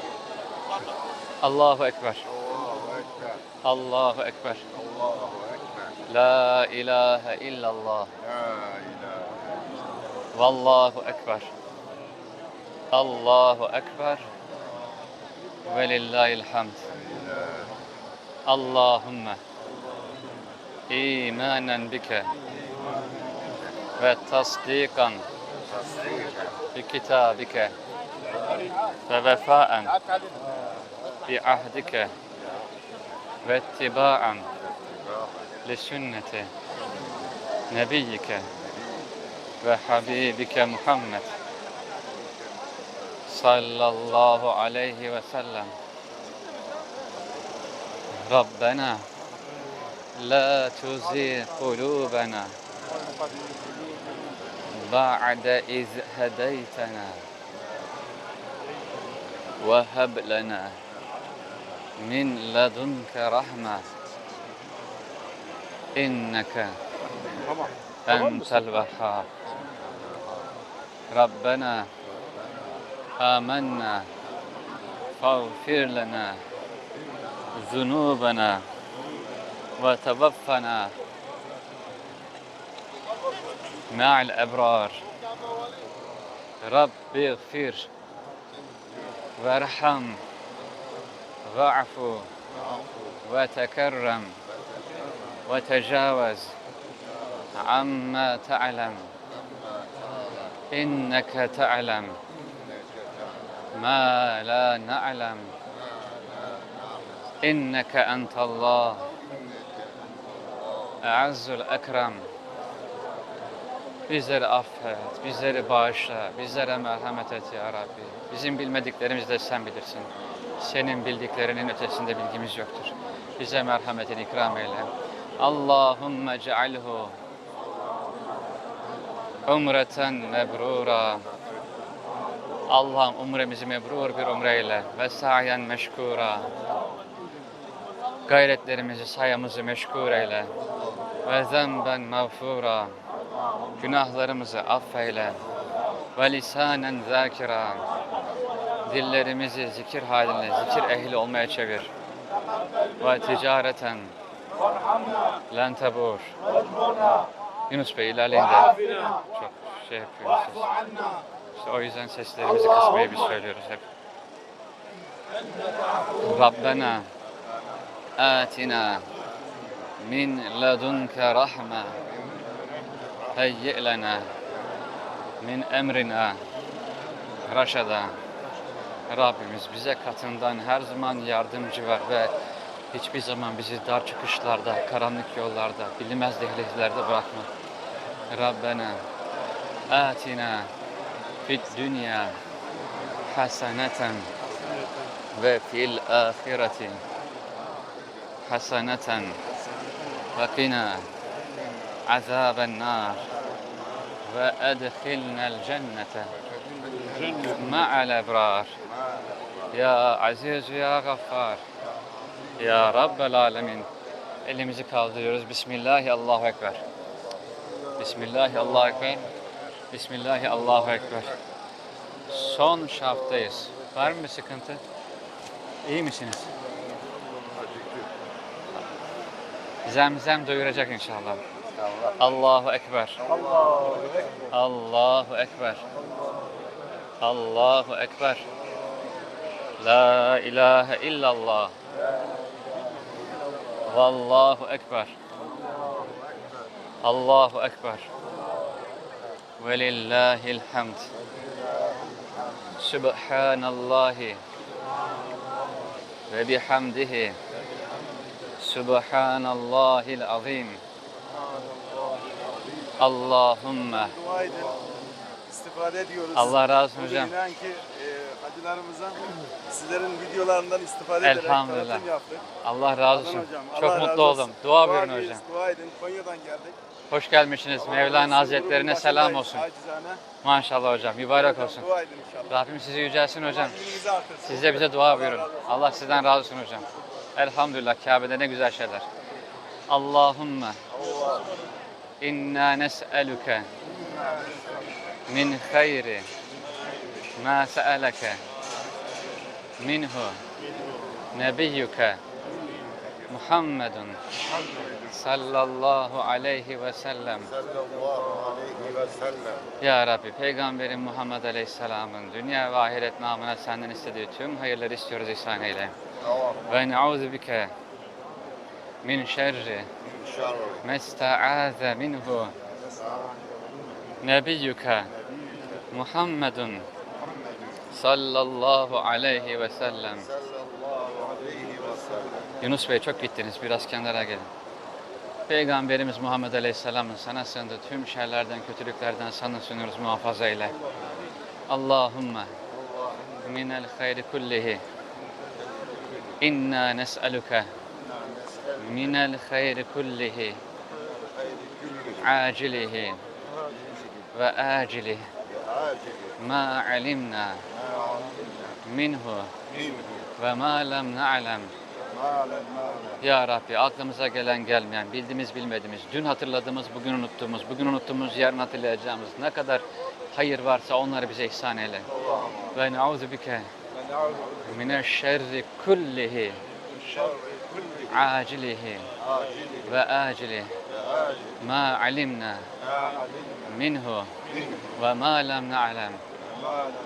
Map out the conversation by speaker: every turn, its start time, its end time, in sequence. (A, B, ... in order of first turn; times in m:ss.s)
0:01.4-0:02.2 A
0:02.3-0:03.4 B
0:03.6-0:04.6 A
0:04.7-0:05.9 B
0:06.1-0:08.1 A
0:08.2-0:09.4 B
0:10.3-0:11.5 A
0:12.9-0:14.3 A
0:15.7-0:16.8 A
0:18.4-0:19.4 A
0:20.9-0:22.3 A
0:24.0-0:25.2 A
0:25.8-0:26.5 B
0:26.7-0:27.7 A
0:29.1-0:30.0 A
0:31.2-0:32.1 A
0:33.4-0:34.5 A
0:35.6-0:36.5 A
0:37.7-0:38.5 A
0:39.6-0:41.3 A
0:43.3-0:45.7 A
0:48.3-0:49.0 A
0:50.2-0:52.5 A
0:54.7-0:57.2 A
0:59.6-1:00.8 A
1:02.0-1:03.9 A
1:06.0-1:06.8 A
1:08.0-1:09.3 A
1:11.1-1:11.9 A
1:13.2-1:14.1 A
1:15.2-1:16.4 A
1:17.5-1:18.6 A
1:19.8-1:20.9 A
1:23.9-1:25.0 A
1:26.6-1:27.9 A
1:29.4-1:30.2 A
1:31.4-1:32.3 A
1:33.2-1:34.4 A
1:35.4-1:36.5 A
1:37.5-1:39.1 A
1:39.6-1:40.5 B
1:40.7-1:42.2 A
1:42.6-1:43.6 B
1:43.7-1:45.5 A
1:46.3-1:47.2 B
1:47.4-1:49.1 A
1:49.4-1:50.0 B
1:51.0-1:52.3 A
1:54.1-2:07.2 A
2:09.4-2:11.2 A
2:12.7-2:16.5 A
2:18.3-2:20.5 A
2:21.2-2:23.0 A
2:23.8-2:25.4 A
2:26.2-2:27.8 A
2:28.8-2:31.9 A
2:33.0-2:34.1 A
2:35.5-2:36.4 A
2:37.7-2:40.7 A
2:41.6-2:43.8 A
2:46.2-2:47.1 A
2:48.2-2:49.0 A
2:50.0-2:52.0 A
2:53.3-2:54.3 A
2:55.4-2:56.4 A
2:57.5-2:58.2 A
2:59.1-3:02.3 A
3:02.9-3:07.5 A
3:08.3-3:09.0 A
3:09.9-3:10.7 A
3:11.4-3:12.4 A
3:13.3-3:14.3 A
3:15.3-3:17.0 A
3:18.4-3:19.4 A
3:20.4-3:21.1 A
3:22.1-3:23.3 A
3:24.2-3:26.3 A
3:27.4-3:28.8 A
3:29.7-3:31.6 A
3:32.6-3:33.9 A
3:34.4-3:36.8 A
3:38.0-3:39.3 A
3:39.9-3:41.4 A
3:42.3-3:44.8 A
3:45.8-3:46.5 A
3:47.6-3:48.0 B
3:49.8-3:51.4 A
3:52.2-3:53.2 A
3:54.5-3:55.8 A
3:57.2-3:58.4 A
3:59.8-4:01.7 A
4:03.8-4:05.1 A
4:07.0-4:08.1 A
4:09.6-4:11.1 A
4:12.8-4:14.4 A
4:16.3-4:17.4 A
4:18.6-4:20.8 A
4:23.0-4:24.1 A
4:24.0-4:24.9 C
4:25.4-4:32.5 C
4:26.3-4:27.3 A
4:31.2-4:32.1 A
4:32.6-4:35.4 A
4:33.1-4:36.8 C
4:37.1-4:39.6 A
4:37.8-4:40.2 C
4:40.4-4:41.8 A
4:41.3-4:42.6 C
4:42.5-4:43.8 A
4:43.4-4:45.7 C
4:44.4-4:49.1 A
4:49.9-4:50.8 A
4:52.2-4:53.7 A
4:55.3-4:56.3 A
4:57.4-4:58.4 A
4:59.8-5:00.4 A
5:01.3-5:02.2 A
5:03.3-5:04.2 A
5:05.1-5:07.5 A
5:07.4-5:09.6 B
5:09.8-5:15.9 A
5:16.7-5:17.7 A
5:19.0-5:19.9 A
5:20.2-5:20.8 B
5:20.8-5:22.5 A
5:24.2-5:25.1 A
5:25.9-5:26.9 A
5:27.9-5:30.3 A
5:30.3-5:32.5 B
5:32.6-5:34.5 A
5:35.5-5:40.7 A
5:41.7-5:42.5 A
5:43.4-5:44.8 A
5:46.4-5:47.7 A
5:48.2-5:48.9 B
5:48.8-5:50.6 A
5:51.3-5:52.3 B
5:52.2-5:53.2 A
5:54.3-5:55.3 A
5:55.5-5:56.4 B
5:56.4-5:57.6 A
5:57.9-5:58.4 B
5:58.8-5:59.5 A
6:00.4-6:01.7 A
6:02.2-6:03.1 B
6:03.2-6:12.1 A
6:12.7-6:13.7 A
6:14.6-6:16.6 A
6:18.1-6:19.1 A
6:19.3-6:19.8 B
6:19.8-6:20.7 A
6:21.0-6:21.6 B
6:21.6-6:22.7 A
6:23.0-6:23.2 C
6:23.6-6:24.3 A
6:25.0-6:26.2 A